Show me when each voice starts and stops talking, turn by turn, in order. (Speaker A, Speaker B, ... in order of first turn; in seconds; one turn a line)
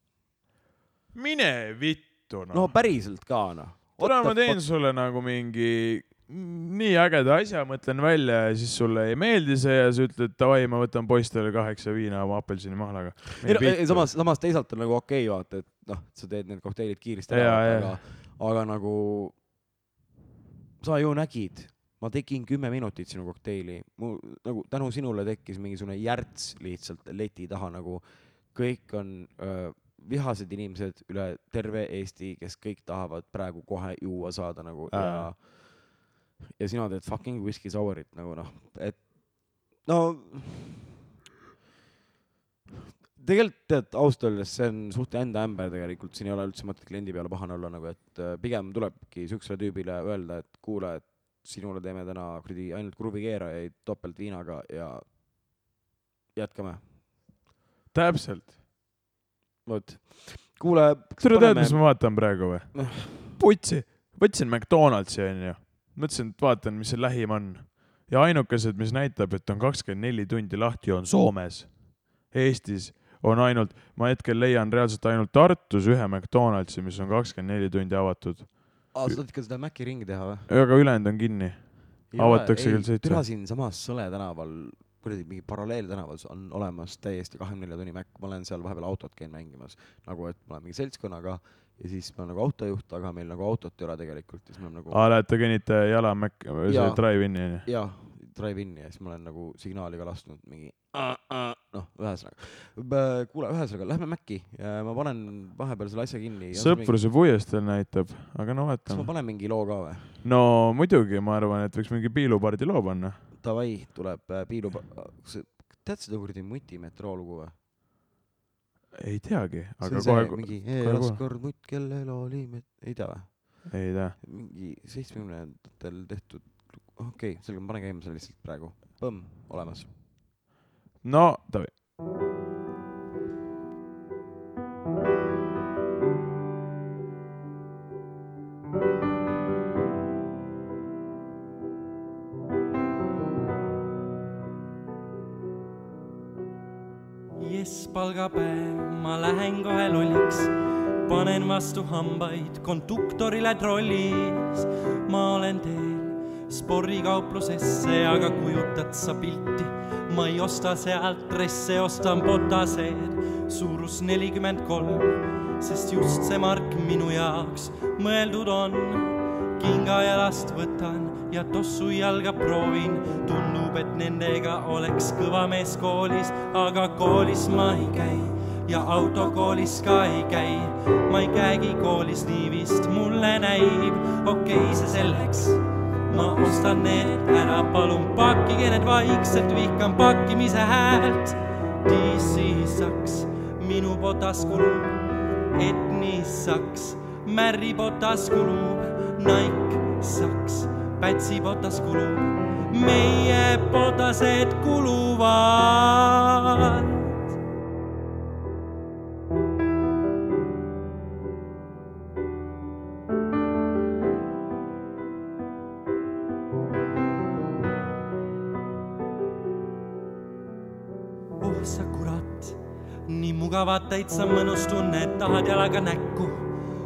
Speaker A: 1.1-2.7
Speaker B: 2.5-4.6
Speaker A: 4.0-14.1
Speaker B: 13.4-19.4
Speaker A: 17.3-18.0
Speaker B: 20.8-36.0
Speaker A: 34.9-35.3
Speaker B: 36.6-40.9
Speaker B: 43.1-55.0
Speaker B: 56.3-56.9
Speaker A: 57.9-58.5
Speaker B: 59.6-62.2
Speaker A: 61.2-79.2
Speaker B: 62.7-63.4
Speaker B: 78.9-80.5
Speaker A: 80.5-83.2
Speaker B: 82.1-95.1
Speaker A: 94.9-97.7
Speaker B: 96.7-107.0
Speaker A: 106.5-109.1
Speaker B: 108.9-110.2
Speaker A: 110.2-113.2
Speaker B: 113.3-117.5
Speaker A: 119.0-121.2
Speaker B: 119.8-129.9
Speaker A: 123.7-124.2
Speaker A: 131.0-131.7
Speaker C: 147.4-150.5
Speaker C: 151.1-195.0
Speaker C: 195.5-207.1
Speaker C: 221.4-222.6
Speaker C: 223.1-226.5